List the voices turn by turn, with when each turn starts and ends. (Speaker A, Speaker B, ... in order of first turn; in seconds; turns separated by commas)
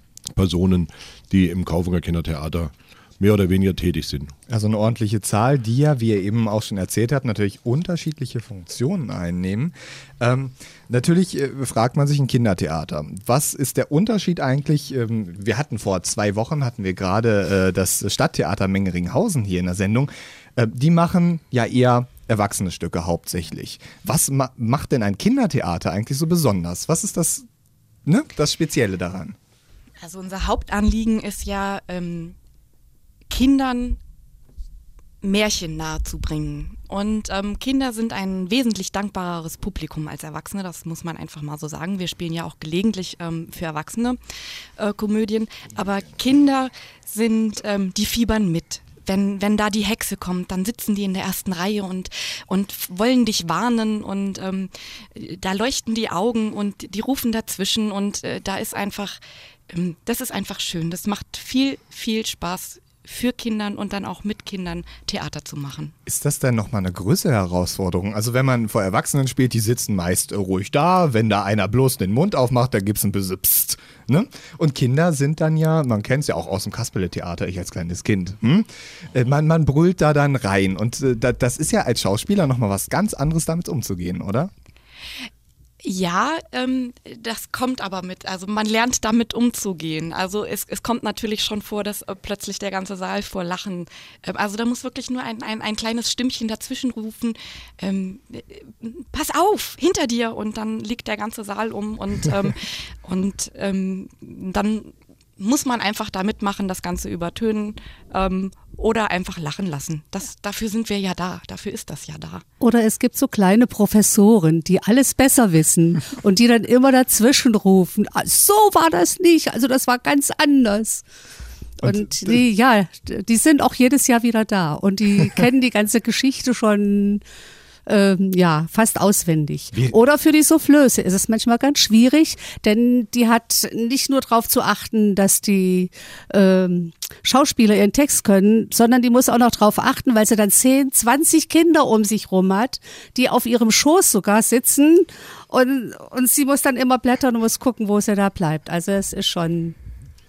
Speaker A: 0.3-4.3, Speaker B: 4.5-27.5, Speaker B: 28.1-29.4, Speaker C: 30.0-32.4, Speaker C: 33.3-34.0, Speaker C: 35.2-44.2, Speaker C: 44.8-59.2, Speaker C: 59.7-65.9, Speaker B: 66.0-84.5, Speaker C: 85.8-112.4, Speaker D: 112.6-121.0, Speaker B: 121.8-122.4, Speaker D: 121.8-127.2, Speaker D: 127.8-149.7